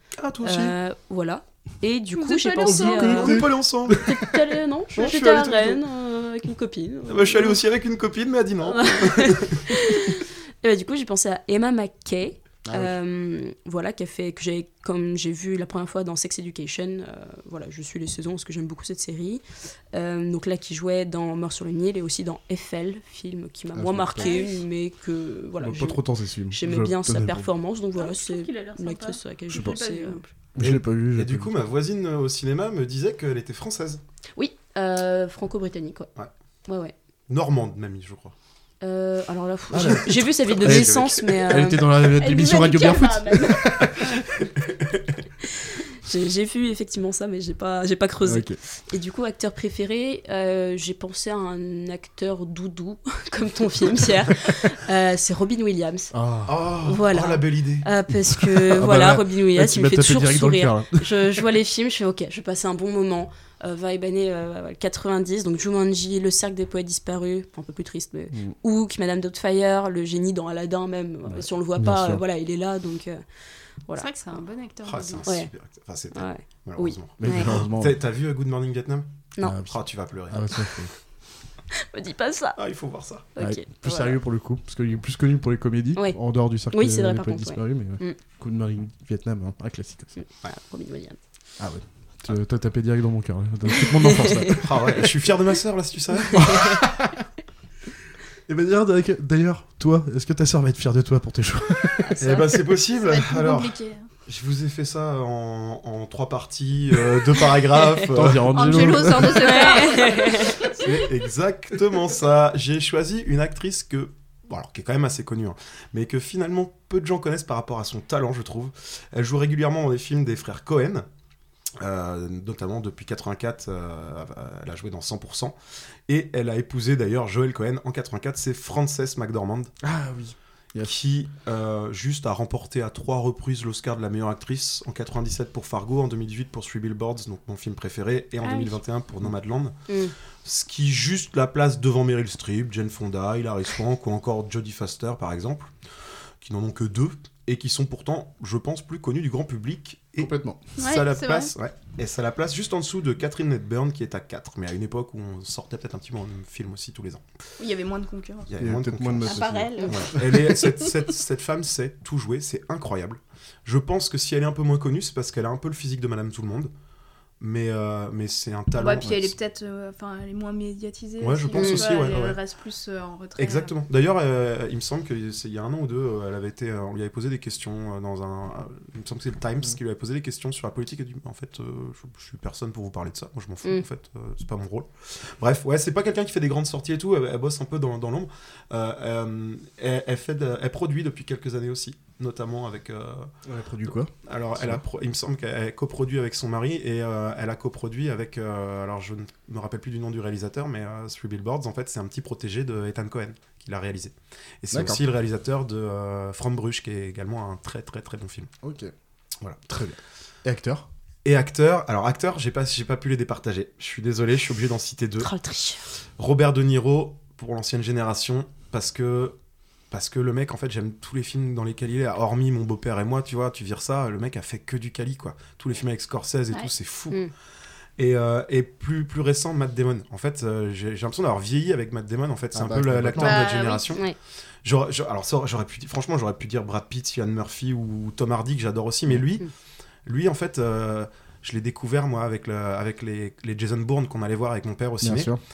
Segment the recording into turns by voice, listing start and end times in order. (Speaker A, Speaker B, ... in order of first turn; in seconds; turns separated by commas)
Speaker A: 0.2-0.8, Speaker B: 0.4-7.6, Speaker C: 2.1-3.4, Speaker D: 2.6-4.3, Speaker A: 3.0-4.1, Speaker A: 4.9-5.8, Speaker A: 7.1-9.7, Speaker B: 8.6-30.2, Speaker D: 12.7-12.9, Speaker D: 23.7-24.3, Speaker C: 24.2-24.6, Speaker D: 25.6-27.5, Speaker C: 27.9-30.3, Speaker D: 30.6-31.5, Speaker A: 30.6-34.0, Speaker B: 34.4-36.1, Speaker B: 36.7-36.9, Speaker A: 37.3-38.3, Speaker B: 38.8-41.9, Speaker D: 39.7-44.0, Speaker A: 39.8-41.6, Speaker C: 42.1-43.7, Speaker B: 46.0-56.1, Speaker D: 48.2-48.6, Speaker D: 56.1-56.5, Speaker A: 56.5-57.9, Speaker B: 56.8-73.2, Speaker D: 58.5-61.5, Speaker D: 71.3-72.2, Speaker B: 73.8-74.1, Speaker C: 74.0-75.2, Speaker A: 74.8-79.1, Speaker B: 75.2-75.5, Speaker B: 76.1-77.5, Speaker D: 77.2-78.0, Speaker D: 79.4-80.9, Speaker A: 79.7-80.5, Speaker B: 81.8-82.6, Speaker A: 82.6-83.3, Speaker B: 83.3-84.2, Speaker D: 83.4-90.1, Speaker B: 86.7-88.2, Speaker B: 90.2-91.2, Speaker D: 91.6-94.8, Speaker B: 93.7-94.5, Speaker A: 94.6-96.5, Speaker D: 96.4-97.1, Speaker D: 98.5-102.2, Speaker B: 102.0-102.4, Speaker A: 102.2-108.5, Speaker C: 102.9-104.1, Speaker D: 108.1-109.6, Speaker C: 108.5-110.5, Speaker B: 109.4-110.6, Speaker A: 110.8-121.0, Speaker A: 121.8-125.5, Speaker A: 126.1-129.7, Speaker D: 129.8-130.9, Speaker A: 130.8-139.7, Speaker C: 138.4-138.8, Speaker B: 139.9-140.1, Speaker A: 140.4-145.7, Speaker A: 146.4-157.2, Speaker D: 150.2-150.6, Speaker C: 150.8-151.5, Speaker C: 157.6-158.5, Speaker A: 158.5-166.7, Speaker D: 158.6-160.4, Speaker C: 159.2-160.7, Speaker A: 167.4-169.3, Speaker C: 168.7-173.7, Speaker A: 171.2-172.4, Speaker B: 171.5-171.9, Speaker A: 173.4-193.3, Speaker D: 193.4-194.8, Speaker A: 194.2-208.5, Speaker D: 204.7-205.0, Speaker D: 208.6-208.9, Speaker D: 209.6-210.9, Speaker A: 211.2-215.3, Speaker B: 215.2-215.9, Speaker A: 216.2-219.3, Speaker A: 219.9-227.3, Speaker A: 228.0-234.0, Speaker D: 232.5-233.4, Speaker C: 233.2-234.0, Speaker A: 234.6-239.5, Speaker A: 240.1-245.3, Speaker D: 245.0-245.4